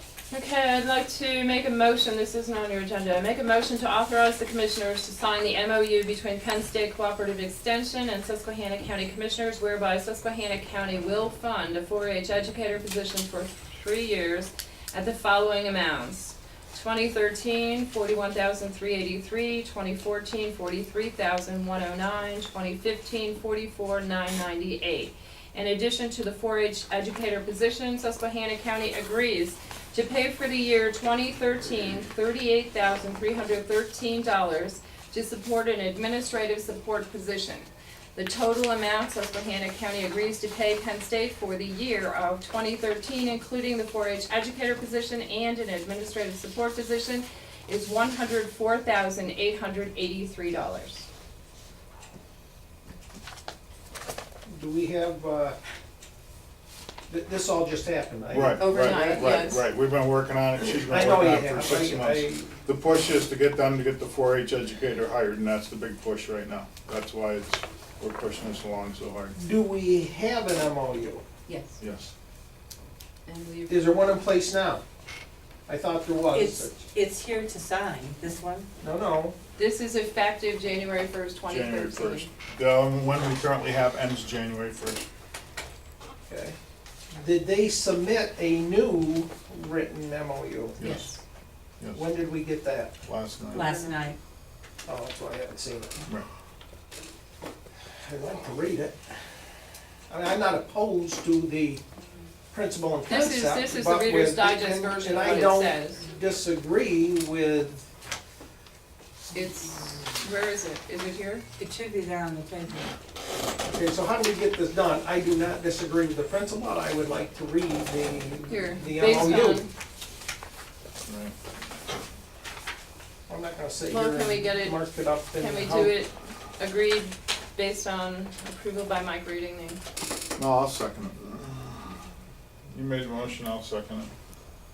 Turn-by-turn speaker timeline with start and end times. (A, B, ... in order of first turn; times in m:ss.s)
0:00.3-0:51.1 A
0:54.5-0:55.6 B
0:57.1-0:59.3 B
0:58.3-1:09.3 C
0:58.6-0:59.6 A
1:00.9-1:02.5 B
1:09.4-1:11.2 B
1:11.5-1:11.8 A
1:11.8-1:12.1 C
1:13.3-1:14.0 A
1:13.7-1:14.8 B
1:15.7-1:16.7 B
1:16.3-1:18.7 D
1:18.8-1:19.3 B
1:19.6-1:22.3 A
1:21.5-1:25.0 C
1:26.3-1:26.6 B
1:27.1-1:30.8 B
1:30.8-1:31.1 C
1:30.8-1:31.2 A
1:31.9-1:32.9 B
1:33.0-1:33.7 C
1:33.5-1:34.2 D
1:33.6-1:34.0 A
1:34.8-1:36.0 B
1:37.9-1:39.3 B
1:40.1-1:41.8 B
1:42.5-1:47.9 B
1:43.1-1:46.0 A
1:49.3-1:51.4 A
1:51.6-1:52.9 D
1:53.6-1:59.6 B
1:58.5-1:59.7 A
2:01.0-2:01.4 C
2:03.3-2:06.0 B
2:03.9-2:09.8 A
2:10.4-2:12.1 C
2:12.7-2:14.1 C